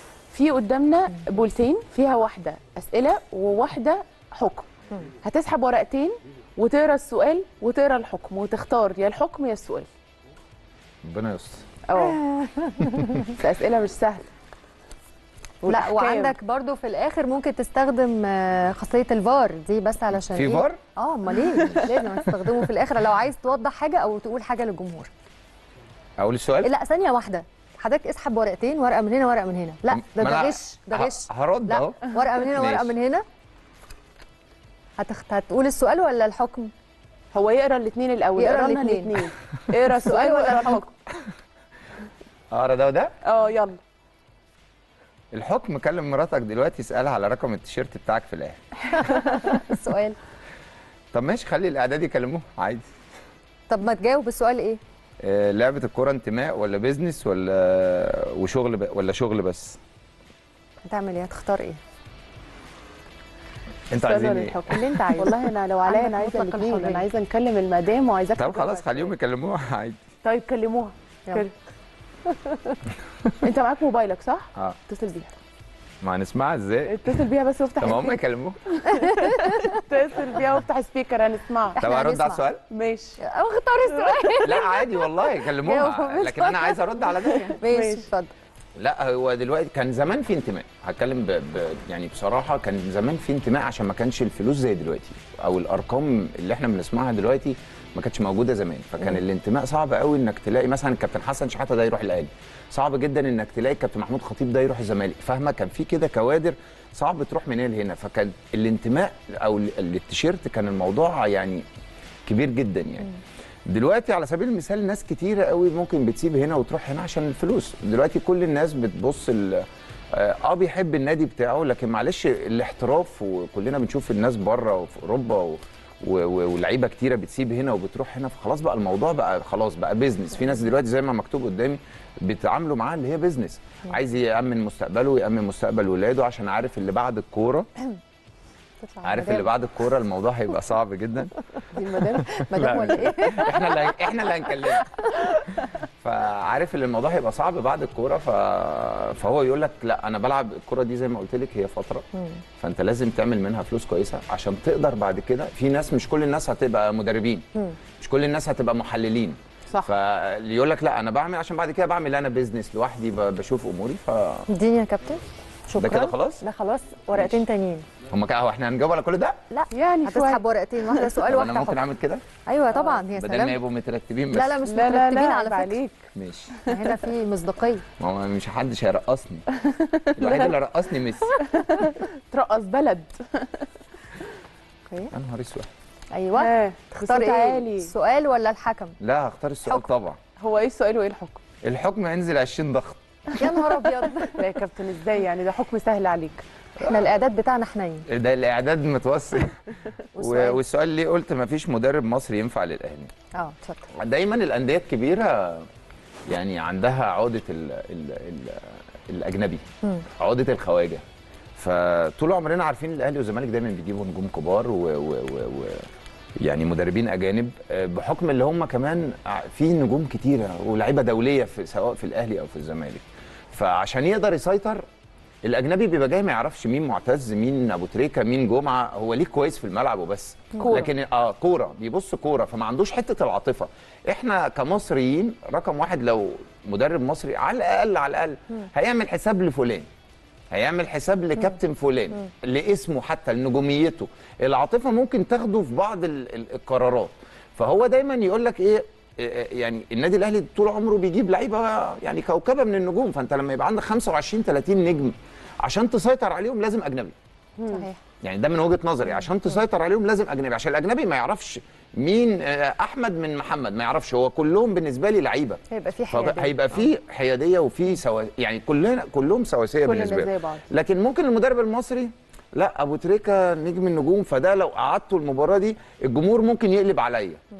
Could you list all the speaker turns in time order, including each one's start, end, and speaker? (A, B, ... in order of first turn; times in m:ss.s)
0:00.3-0:04.7 A
0:05.2-0:09.9 A
0:11.0-0:11.6 B
0:11.9-0:12.2 A
0:12.0-0:13.3 C
0:13.3-0:14.3 A
0:15.6-0:16.4 A
0:15.6-0:25.1 C
0:20.2-0:20.8 B
0:21.5-0:22.1 A
0:26.2-0:26.7 B
0:26.6-0:33.2 C
0:29.9-0:32.9 B
0:35.0-0:36.7 C
0:37.3-0:40.9 A
0:38.4-0:39.2 C
0:40.0-0:40.8 C
0:42.5-0:43.1 B
0:43.2-0:43.8 A
0:45.3-0:48.6 B
0:48.9-0:50.2 C
0:49.0-0:49.6 A
0:51.1-0:52.9 B
0:53.7-0:54.8 C
0:55.2-0:59.8 B
1:00.8-1:01.8 C
1:03.9-1:05.0 B
1:03.9-1:09.1 A
1:04.6-1:07.0 C
1:08.4-1:10.0 B
1:10.2-1:11.5 A
1:12.3-1:12.8 C
1:13.4-1:15.3 A
1:16.0-1:17.2 B
1:16.8-1:21.8 A
1:17.8-1:18.6 B
1:19.0-1:19.7 C
1:21.8-1:22.4 C
1:21.8-1:22.6 B
1:22.7-1:23.2 A
1:23.2-1:26.9 C
1:24.0-1:24.4 A
1:24.4-1:27.6 B
1:27.5-1:28.1 A
1:27.5-1:28.3 C
1:28.8-1:51.6 B
1:52.2-1:53.2 B
1:53.7-2:17.7 B
2:18.8-2:19.5 C
2:19.0-2:21.3 B
2:21.7-2:22.9 A
2:22.1-2:23.9 C
2:22.5-2:24.9 B
2:24.7-2:25.4 C
2:26.0-2:32.1 B
2:32.1-2:32.4 C
2:32.6-2:37.4 B
2:38.0-2:44.5 B
2:44.5-2:47.8 C
2:45.8-2:46.4 B
2:48.1-2:49.4 B
2:49.5-2:51.8 C
2:49.7-2:50.4 A
2:51.2-2:52.2 B
2:52.4-2:53.6 C
2:52.7-2:53.0 A
2:53.2-2:54.6 B
2:54.3-2:55.8 C
2:54.7-2:56.0 A
2:56.1-2:56.6 B
2:56.7-2:57.8 C
2:58.0-2:59.4 B
2:59.6-3:00.5 A
3:00.2-3:01.4 B
3:01.3-3:03.7 A
3:05.1-3:05.7 B
3:06.1-3:09.0 C
3:06.4-3:07.9 A
3:09.0-3:10.2 B
3:10.4-3:11.4 A
3:11.6-3:13.5 B
3:13.3-3:14.4 C
3:14.4-3:16.4 A
3:16.8-3:18.1 C
3:18.1-3:23.1 B
3:20.2-3:20.6 A
3:23.3-3:23.9 C
3:23.9-3:25.7 B
3:26.3-3:31.0 B
3:31.6-3:35.9 B
3:36.4-3:44.8 B
3:45.4-3:59.9 B
3:50.5-3:50.9 A
4:00.5-4:17.1 B
4:17.6-4:17.9 A
4:17.7-4:18.0 C
4:18.2-4:37.4 B
4:25.7-4:26.8 C
4:29.8-4:30.6 A